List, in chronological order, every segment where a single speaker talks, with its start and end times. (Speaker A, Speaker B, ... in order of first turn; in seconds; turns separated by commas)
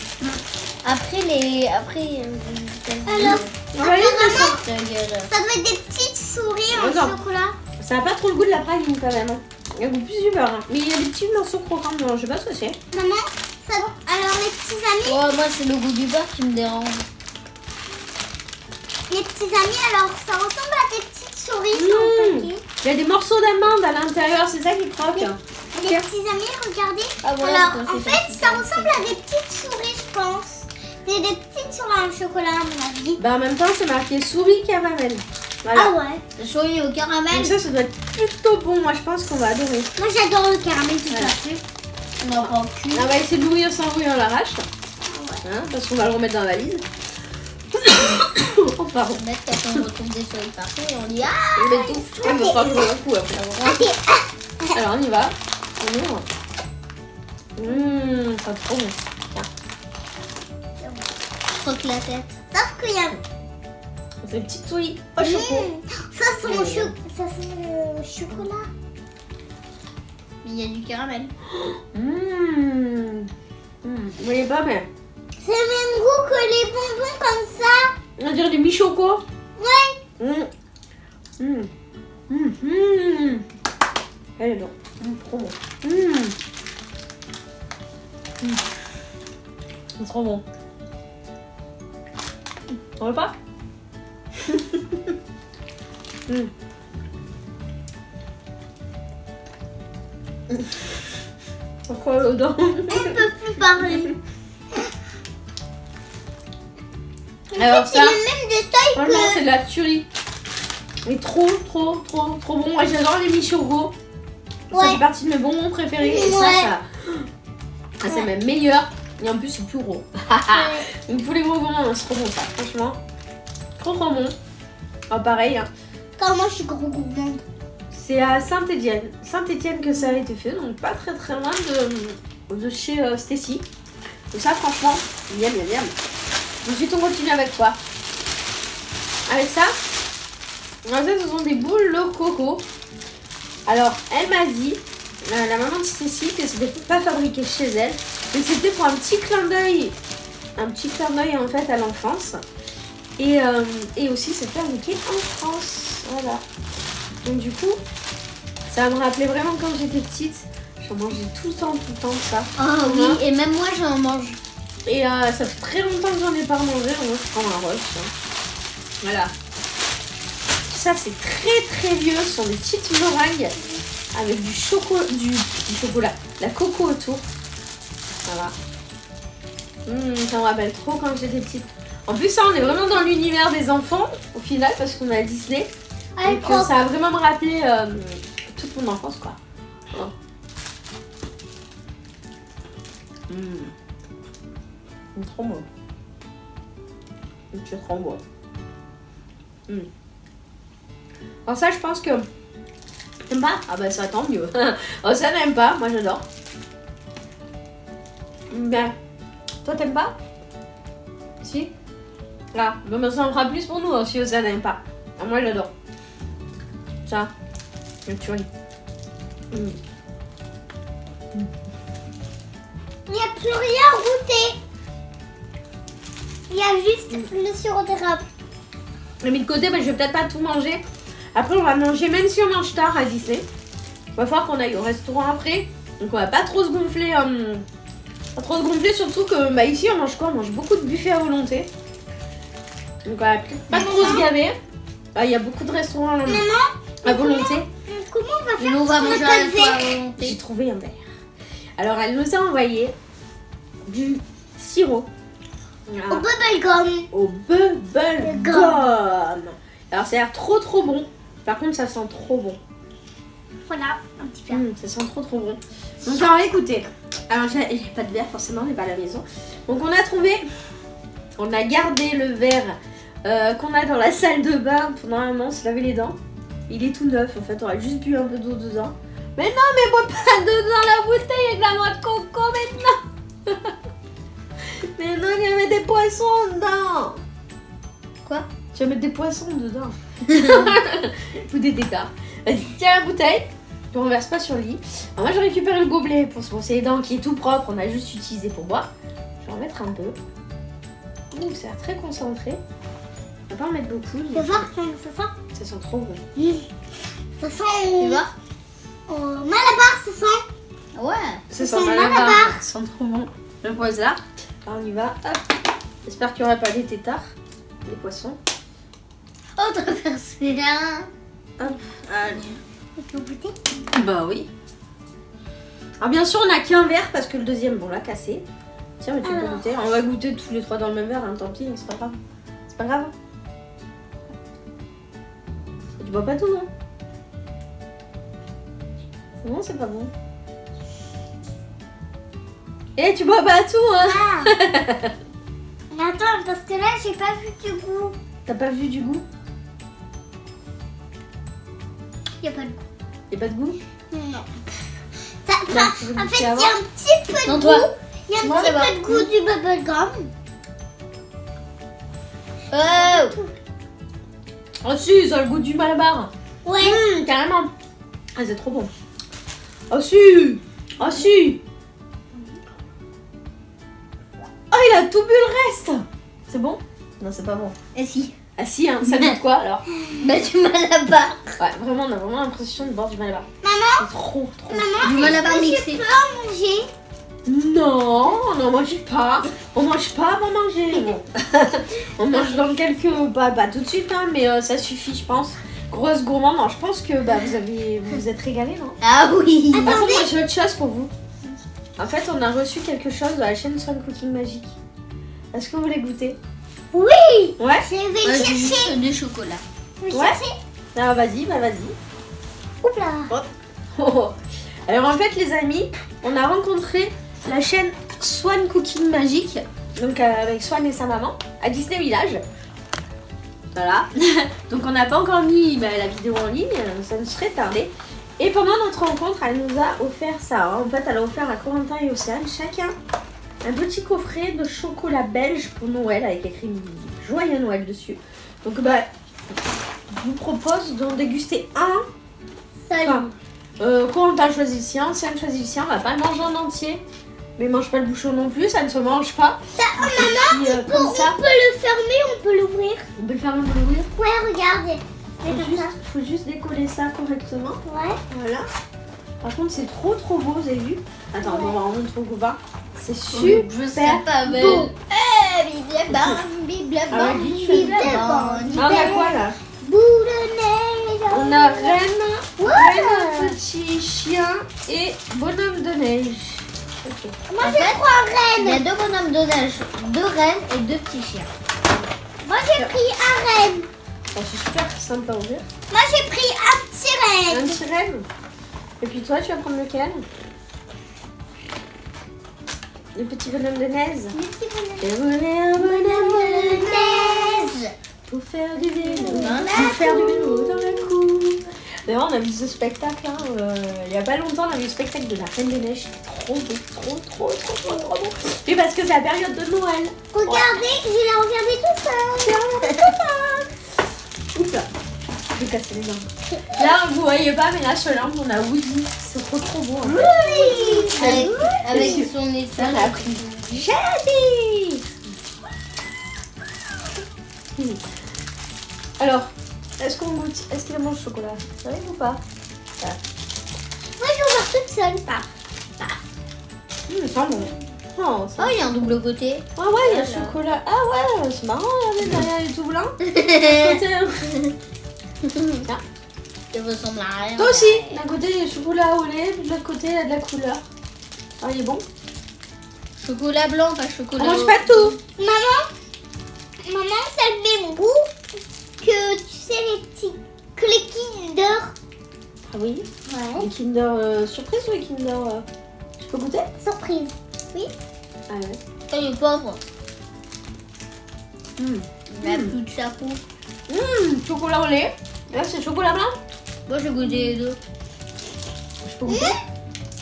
Speaker A: 0.2-3.5, Speaker B: 3.1-4.7, Speaker C: 3.2-4.5, Speaker A: 4.3-5.3, Speaker B: 5.3-7.6, Speaker C: 6.7-7.2, Speaker C: 7.8-12.8, Speaker B: 12.9-15.2, Speaker A: 15.1-17.1, Speaker B: 19.1-22.6, Speaker C: 21.7-26.0, Speaker B: 25.1-33.2, Speaker A: 27.2-29.2, Speaker C: 33.2-35.9, Speaker B: 35.8-36.2, Speaker A: 36.4-37.6, Speaker C: 37.3-39.9, Speaker B: 40.0-41.6, Speaker A: 42.2-43.1, Speaker C: 42.4-44.7, Speaker B: 45.1-45.5, Speaker C: 45.4-46.9, Speaker C: 47.7-49.2, Speaker A: 49.1-51.9, Speaker C: 51.6-53.9, Speaker B: 51.8-52.9, Speaker B: 53.6-54.8, Speaker C: 54.8-56.2, Speaker C: 57.6-59.5, Speaker B: 60.8-61.1, Speaker A: 61.5-62.4, Speaker B: 62.4-63.2, Speaker C: 64.2-65.7, Speaker B: 65.2-68.7, Speaker C: 66.4-66.9, Speaker A: 70.4-71.3, Speaker C: 71.6-73.3, Speaker C: 73.8-74.9, Speaker B: 75.4-77.9, Speaker C: 78.2-79.2, Speaker B: 79.6-80.0, Speaker C: 80.2-80.5, Speaker C: 81.4-81.7, Speaker C: 82.3-83.4, Speaker C: 84.4-86.3, Speaker C: 90.0-90.4, Speaker C: 93.0-93.3, Speaker C: 94.4-95.1, Speaker C: 101.8-103.2, Speaker B: 102.9-104.2, Speaker B: 107.5-109.4, Speaker C: 107.5-108.2, Speaker C: 109.0-110.1, Speaker C: 111.0-113.9, Speaker B: 114.7-115.0, Speaker C: 114.7-117.3, Speaker B: 116.0-116.7, Speaker C: 118.0-123.0, Speaker B: 120.5-120.9, Speaker C: 123.8-124.3, Speaker C: 125.1-125.7, Speaker B: 126.2-127.4, Speaker C: 127.9-133.7, Speaker C: 134.3-135.9, Speaker C: 136.6-137.8, Speaker C: 139.3-139.7, Speaker C: 140.9-142.6, Speaker C: 143.7-150.0, Speaker C: 150.6-152.4, Speaker C: 153.2-156.4, Speaker C: 157.2-157.8, Speaker C: 158.7-163.2, Speaker A: 162.6-164.4, Speaker C: 164.9-168.1, Speaker C: 169.0-169.3, Speaker C: 170.7-173.5, Speaker C: 174.1-177.2, Speaker C: 178.2-178.5, Speaker C: 179.9-185.7, Speaker B: 186.2-186.8, Speaker C: 186.2-189.4, Speaker C: 193.3-193.7, Speaker C: 195.1-195.7, Speaker C: 197.5-198.2, Speaker C: 201.5-202.3, Speaker C: 203.3-206.2, Speaker C: 208.5-208.9, Speaker C: 209.6-210.1, Speaker C: 211.4-211.7, Speaker C: 212.5-215.7, Speaker C: 217.1-217.3, Speaker C: 218.1-218.5, Speaker C: 219.5-219.8, Speaker B: 223.1-224.6, Speaker B: 226.5-228.2, Speaker C: 229.2-230.8, Speaker C: 231.3-233.4, Speaker C: 234.1-237.6, Speaker C: 238.4-241.7, Speaker C: 243.1-244.6, Speaker B: 243.7-244.3, Speaker C: 245.1-246.5, Speaker B: 246.2-250.0, Speaker C: 247.0-247.7, Speaker A: 248.6-250.4, Speaker C: 250.2-251.0, Speaker C: 251.8-252.9, Speaker C: 253.9-255.1, Speaker C: 255.9-256.2, Speaker B: 256.1-257.1, Speaker C: 257.1-262.6, Speaker B: 258.2-258.8, Speaker B: 263.7-264.6, Speaker C: 264.5-270.4, Speaker C: 271.4-276.2, Speaker C: 276.7-283.7, Speaker C: 284.7-287.2, Speaker C: 288.7-298.9, Speaker A: 290.3-290.7, Speaker C: 299.4-300.2, Speaker C: 301.3-302.6, Speaker C: 303.5-304.7, Speaker B: 304.3-305.3, Speaker C: 305.5-306.2, Speaker B: 306.4-306.7, Speaker B: 307.4-308.2, Speaker A: 308.0-308.3, Speaker B: 309.1-310.4, Speaker A: 310.9-311.5, Speaker C: 311.5-315.4, Speaker B: 311.6-312.6, Speaker C: 316.1-317.3, Speaker C: 317.9-318.4, Speaker A: 319.6-321.1, Speaker C: 321.6-322.6, Speaker B: 323.0-323.6, Speaker C: 323.9-324.5, Speaker C: 326.0-328.4, Speaker C: 329.0-333.1, Speaker B: 329.2-329.7, Speaker C: 336.0-336.7, Speaker C: 339.4-340.1, Speaker C: 343.0-345.1, Speaker B: 344.0-344.5, Speaker B: 345.9-348.1, Speaker C: 348.5-349.2, Speaker B: 352.4-352.8, Speaker C: 353.3-353.8, Speaker B: 354.1-354.5, Speaker B: 355.4-360.3, Speaker C: 355.7-356.8, Speaker A: 357.4-359.3, Speaker C: 358.4-358.7, Speaker A: 362.7-363.4, Speaker B: 362.8-363.5, Speaker C: 364.8-367.7, Speaker B: 366.6-367.0, Speaker C: 368.4-368.9, Speaker C: 369.9-371.6, Speaker C: 374.7-377.8, Speaker A: 377.9-378.3, Speaker C: 378.6-379.8, Speaker A: 379.0-379.4, Speaker A: 380.1-381.6, Speaker C: 381.6-385.4, Speaker B: 383.6-384.1, Speaker B: 384.7-386.9, Speaker A: 385.0-386.1, Speaker C: 387.5-399.0, Speaker A: 399.0-400.0, Speaker B: 399.7-400.3, Speaker C: 399.8-401.1, Speaker C: 402.0-404.8, Speaker C: 405.5-406.4, Speaker B: 406.9-409.0, Speaker C: 407.6-408.7, Speaker A: 408.2-409.6, Speaker B: 410.0-410.5, Speaker C: 410.1-410.4, Speaker C: 410.9-412.0, Speaker B: 412.8-413.3, Speaker C: 413.3-414.4, Speaker C: 414.9-422.4, Speaker C: 423.8-432.9, Speaker C: 433.6-439.1, Speaker C: 440.1-442.0, Speaker B: 442.9-443.3, Speaker C: 443.0-447.0, Speaker C: 447.6-451.4, Speaker B: 449.8-453.1, Speaker C: 453.2-454.1, Speaker B: 454.1-456.0, Speaker C: 455.5-457.8, Speaker B: 457.9-458.2, Speaker C: 458.3-458.7, Speaker C: 459.4-464.9, Speaker B: 461.4-461.8, Speaker A: 463.3-469.2, Speaker B: 464.5-464.9, Speaker C: 466.1-466.4, Speaker C: 467.1-469.6, Speaker B: 467.2-472.0, Speaker C: 471.3-477.8, Speaker B: 472.6-473.5, Speaker B: 477.5-478.8, Speaker A: 477.6-478.0, Speaker A: 478.6-481.5, Speaker B: 482.4-483.9, Speaker C: 484.3-485.6, Speaker B: 485.9-487.8, Speaker C: 487.5-488.2, Speaker C: 489.0-490.2, Speaker C: 493.1-494.4, Speaker B: 494.3-495.1, Speaker C: 495.0-497.1, Speaker B: 495.8-497.8, Speaker A: 497.0-497.9, Speaker C: 498.3-510.8, Speaker B: 499.1-501.1, Speaker A: 499.3-500.1, Speaker B: 510.3-513.1, Speaker C: 512.4-513.7, Speaker C: 514.5-514.9, Speaker C: 515.5-525.0, Speaker B: 520.1-522.2, Speaker A: 521.1-523.9, Speaker C: 529.2-532.4, Speaker B: 534.2-535.5, Speaker C: 537.1-539.2, Speaker A: 538.6-540.6, Speaker C: 539.8-544.5, Speaker A: 543.3-544.0, Speaker A: 545.6-545.8, Speaker A: 546.7-548.2, Speaker C: 547.6-550.8, Speaker C: 551.6-552.0, Speaker A: 553.2-555.2, Speaker C: 554.4-555.1, Speaker B: 555.4-555.9, Speaker B: 556.8-558.3, Speaker B: 559.0-561.9, Speaker C: 562.7-563.1, Speaker B: 563.3-563.7, Speaker C: 563.6-565.6, Speaker C: 566.2-566.7, Speaker B: 566.8-567.9, Speaker C: 568.5-568.8, Speaker A: 569.1-569.8, Speaker C: 571.8-572.8, Speaker A: 572.3-573.4, Speaker C: 573.9-576.4, Speaker A: 576.9-577.8, Speaker C: 579.0-579.6, Speaker B: 579.3-579.6